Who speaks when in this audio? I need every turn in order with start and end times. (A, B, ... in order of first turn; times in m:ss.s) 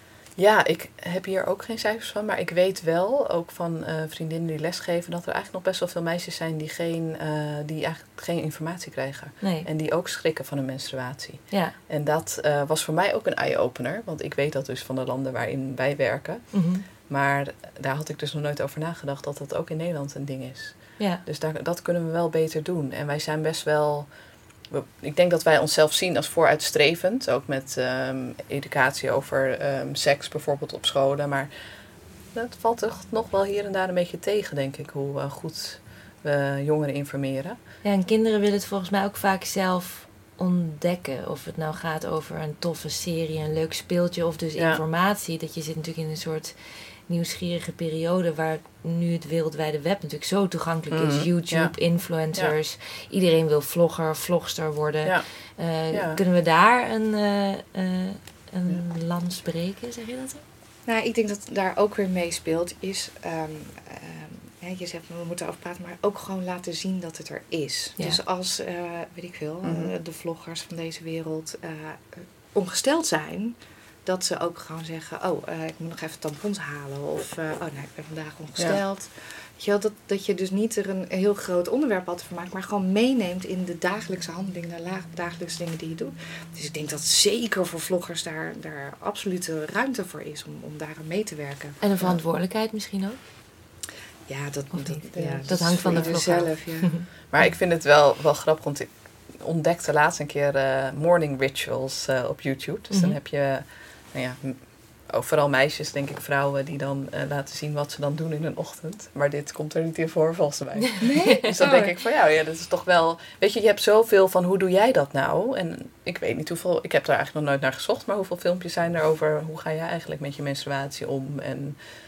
0:00.4-0:31.5 A
0:09.4-0:09.7 B
0:11.5-0:11.8 B
0:16.5-0:16.8 B
0:21.0-0:21.2 B
0:32.3-0:37.6 A
0:37.8-1:00.4 B
0:50.9-0:52.5 A
0:55.9-0:56.2 A
1:00.8-1:31.8 C
1:09.6-1:09.9 A
1:31.8-1:33.2 B
1:34.3-1:37.0 C
1:34.7-1:37.5 B
1:35.1-1:36.2 A
1:37.3-2:01.8 A
1:42.9-1:43.2 B
1:51.0-1:51.9 C